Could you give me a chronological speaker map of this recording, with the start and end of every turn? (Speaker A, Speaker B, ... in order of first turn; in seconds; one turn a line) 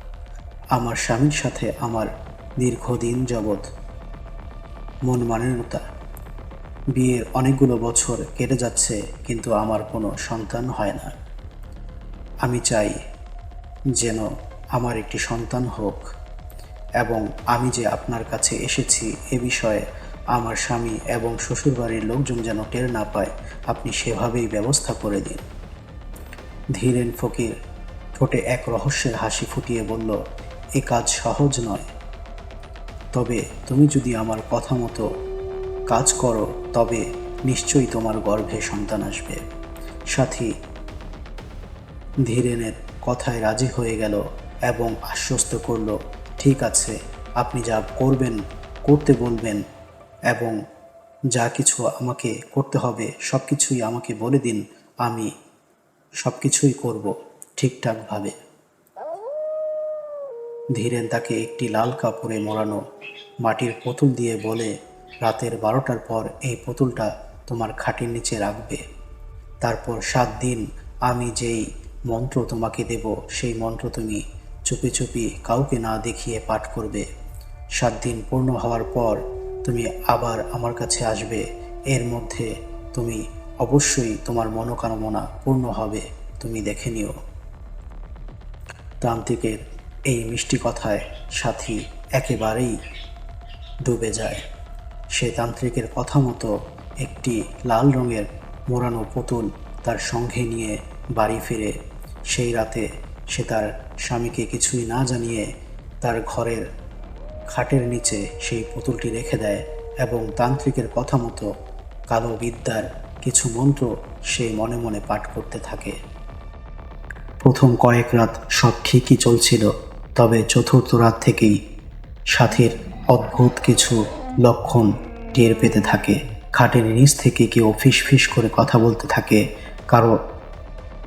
Speaker A: 0.8-3.6
Speaker A: 5.1-5.8
Speaker A: 6.9-11.1
Speaker A: 12.4-13.0
Speaker A: 14.0-14.2
Speaker A: 14.8-16.1
Speaker A: 17.0-25.4
Speaker A: 26.8-27.5
Speaker A: 28.2-30.2
Speaker A: 30.8-31.9
Speaker A: 33.1-35.1
Speaker A: 35.9-39.4
Speaker A: 40.1-40.5
Speaker A: 42.3-49.6
Speaker A: 50.3-50.6
Speaker A: 51.3-55.3
Speaker A: 56.2-58.4
Speaker A: 60.8-62.8
Speaker A: 63.4-64.7
Speaker A: 65.2-68.8
Speaker A: 69.6-77.1
Speaker A: 77.8-87.2
Speaker A: 89.0-92.8
Speaker A: 93.8-94.4
Speaker A: 95.1-101.8
Speaker A: 102.3-105.5
Speaker A: 106.0-106.7
Speaker A: 107.5-111.5
Speaker A: 112.1-116.0
Speaker A: 117.4-121.6
Speaker A: 122.3-130.2